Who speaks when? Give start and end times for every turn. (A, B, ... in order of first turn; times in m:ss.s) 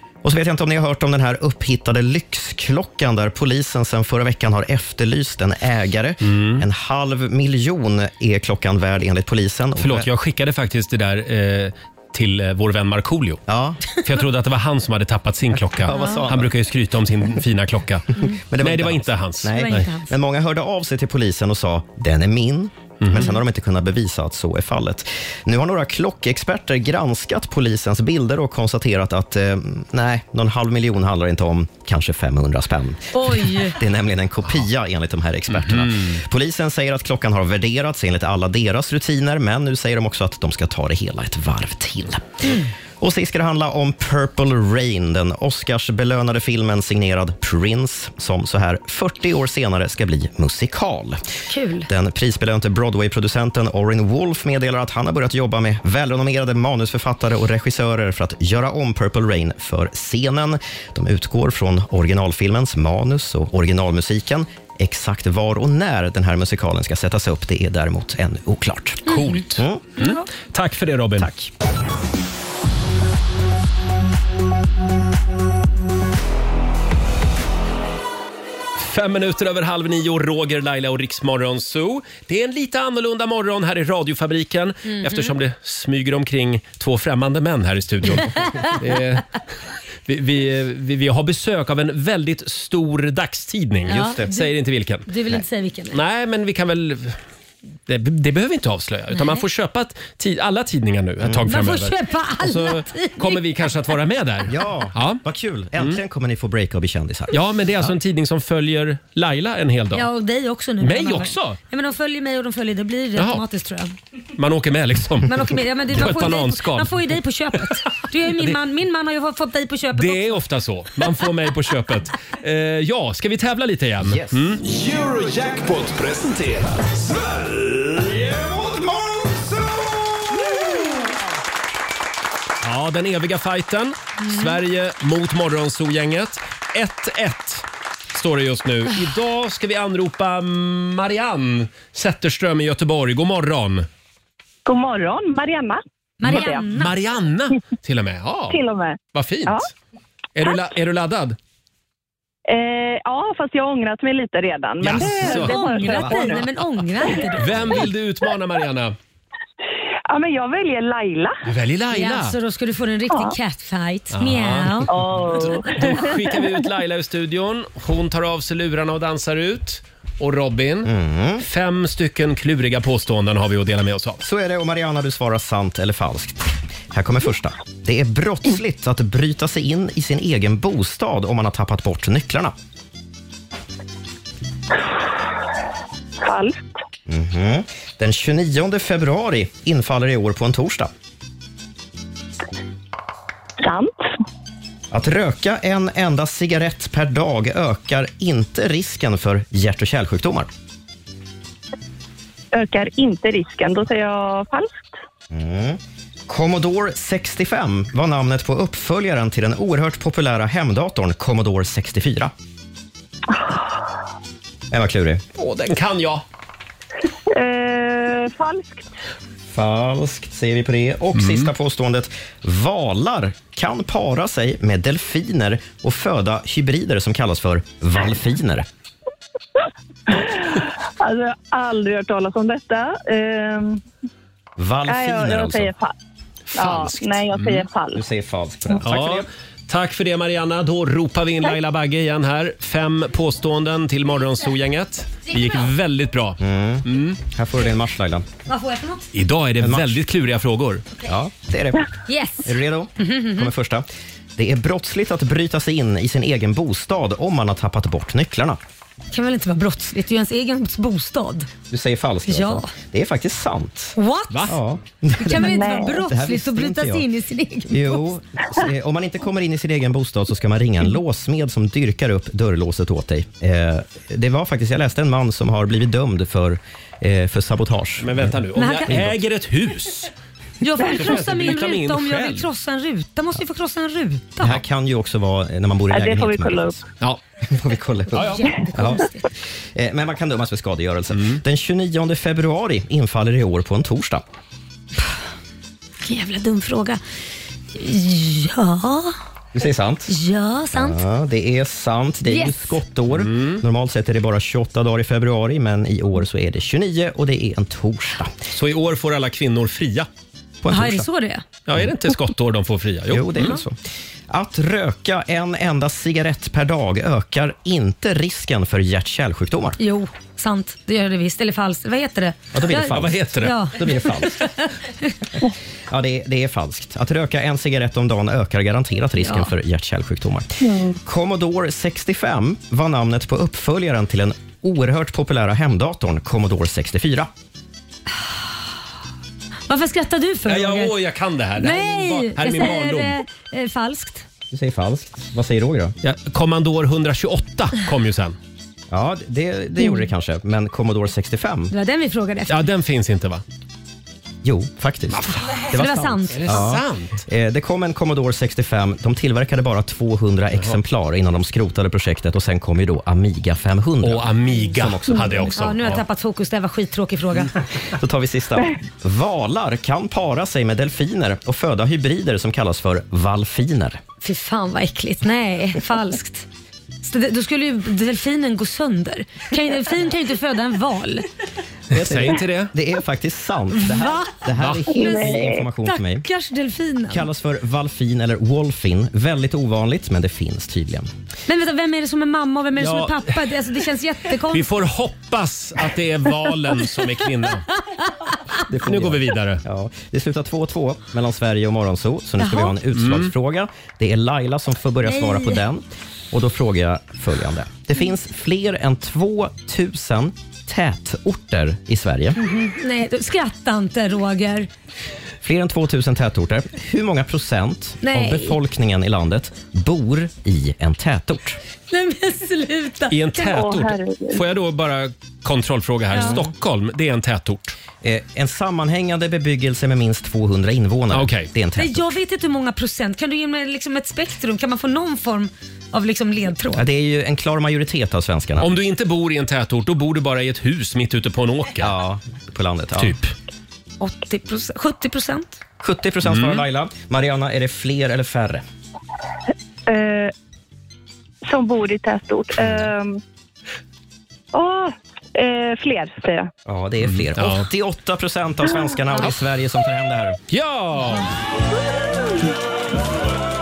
0:00.2-0:10.1 A
0:06.2-0:06.6 B
0:09.8-0:13.4 B
0:13.5-0:14.0 A
0:14.0-0:19.9 B
0:15.5-0:16.5 A
0:15.9-0:16.3 C
0:18.2-0:51.2 A
0:19.5-0:20.1 C
0:23.0-0:23.3 B
0:33.1-0:33.8 C
0:35.5-0:36.2 B
0:51.5-0:51.9 C
0:51.9-1:09.8 A
1:09.1-1:11.3 B
1:09.1-1:09.4 C
1:10.0-1:10.2 C
1:11.2-1:11.5 A
1:18.8-1:29.4 B
1:24.9-1:25.4 C
1:28.4-1:28.7 C
1:30.1-1:35.1 B
1:33.9-1:34.6 C
1:33.9-1:34.3 A
1:35.1-1:36.0 C
1:35.9-1:37.2 B
1:37.9-1:45.2 B
1:41.2-1:41.5 A
1:41.5-1:43.4 C
1:44.5-1:48.0 A
1:47.3-1:50.1 B
1:49.9-1:54.0 C
1:50.8-1:51.6 B
1:53.2-1:53.4 B
1:54.4-1:58.6 B
1:55.3-2:00.4 C
1:59.9-2:04.6 B
2:04.0-2:04.4 A
2:04.6-2:10.9 D
2:10.3-2:10.6 A
2:12.6-2:23.9 B
2:14.2-2:14.6 C
2:24.7-2:26.6 E
2:26.2-2:26.9 C
2:26.2-2:28.6 B
2:28.5-2:29.7 E
2:29.1-2:29.7 B
2:30.4-2:31.4 B
2:32.5-2:36.4 E
2:34.8-2:36.4 B
2:35.0-2:37.9 C
2:37.4-2:39.0 B
2:40.1-2:41.4 E
2:41.4-2:42.4 B
2:41.9-2:44.9 C
2:44.1-2:54.2 B
2:44.9-2:46.6 E
2:50.8-2:51.4 A
2:54.2-3:02.5 A
3:06.2-3:06.6 E
3:07.1-3:10.9 A
3:13.6-3:13.9 E
3:14.9-3:20.5 A
3:22.5-3:24.9 E
3:25.3-3:32.3 A
3:33.3-3:33.8 E
3:34.7-3:35.2 A
3:35.4-3:36.2 B
3:37.3-3:38.9 E
3:39.5-3:48.7 A
3:41.2-3:41.5 B
3:50.1-3:53.8 E
3:54.6-3:55.7 A
3:54.9-3:55.9 E
3:56.5-3:57.7 B
3:56.6-3:58.0 E
3:57.9-3:59.3 A
3:58.8-4:07.2 B
4:06.4-4:08.2 A
4:08.5-4:09.1 C
4:09.1-4:10.8 B
4:09.6-4:10.0 A
4:11.0-4:11.9 A
4:12.1-4:13.5 C
4:12.4-4:18.6 A
4:19.1-4:21.5 C
4:21.7-4:24.0 A
4:22.3-4:22.7 C
4:24.0-4:24.5 C
4:24.3-4:24.6 B
4:24.5-4:27.1 A
4:25.2-4:28.1 C
4:25.4-4:26.0 E
4:27.7-4:39.2 A
4:38.0-4:40.1 B
4:38.6-4:39.0 C
4:40.6-4:44.6 C
4:40.8-4:42.5 B
4:44.4-4:46.8 A
4:45.9-4:46.8 E
4:47.4-4:49.1 A
4:48.1-4:49.3 C
4:49.7-4:54.2 A
4:51.1-4:51.4 B
4:56.0-4:57.0 C
4:57.7-4:59.2 C
4:59.5-5:00.1 A
5:00.1-5:01.0 C
5:00.7-5:08.3 A
5:02.3-5:02.8 C
5:03.1-5:03.6 B
5:08.5-5:10.1 B
5:10.6-5:11.1 A
5:10.7-5:11.4 C
5:11.7-5:13.6 B
5:13.1-5:13.8 A
5:14.3-5:19.8 A
5:19.8-5:25.1 C
5:22.5-5:24.5 A
5:22.8-5:23.7 B
5:25.9-5:37.3 A
5:29.2-5:29.5 C
5:30.7-5:31.0 E
5:39.7-5:41.0 C
5:40.5-5:43.2 B
5:41.6-5:44.2 C
5:44.5-5:46.0 A
5:46.0-5:48.4 B
5:48.9-5:51.7 A
5:51.7-5:52.6 C
5:52.5-5:53.4 B
5:54.4-6:05.6 A
5:55.1-5:55.6 B
5:55.7-5:56.7 C
5:56.3-5:57.2 B
6:04.0-6:06.0 B
6:05.4-6:07.5 C
6:07.8-6:14.0 A
6:14.2-6:16.5 C
6:17.0-6:21.3 C
6:21.9-6:22.7 B
6:21.9-6:26.3 A
6:23.8-6:27.2 C
6:24.6-6:24.9 B
6:24.9-6:25.6 E
6:27.1-6:31.1 A
6:31.5-6:34.7 C
6:34.5-6:37.7 B
6:38.7-6:52.4 A
6:38.8-6:39.6 B
6:42.4-6:42.8 C
6:43.0-6:43.3 B
6:45.0-6:45.6 C
6:52.4-6:54.7 C
6:55.4-7:01.6 A
6:58.0-6:58.6 C
7:01.9-7:03.4 C
7:03.1-7:07.8 B
7:03.4-7:04.4 E
7:06.1-7:06.4 C
7:06.2-7:06.5 A
7:08.0-7:12.2 A
7:11.1-7:11.5 B
7:11.8-7:16.8 C
7:16.7-7:18.7 A
7:18.6-7:21.9 B
7:21.8-7:23.2 A
7:23.0-7:23.3 B
7:24.0-7:25.6 C
7:25.8-7:28.6 A
7:26.2-7:26.6 B
7:29.9-7:30.3 E
7:31.4-7:33.2 E
7:32.6-7:32.9 A
7:34.5-7:36.5 E
7:36.7-7:40.4 A
7:37.1-7:37.7 B
7:40.5-7:41.3 B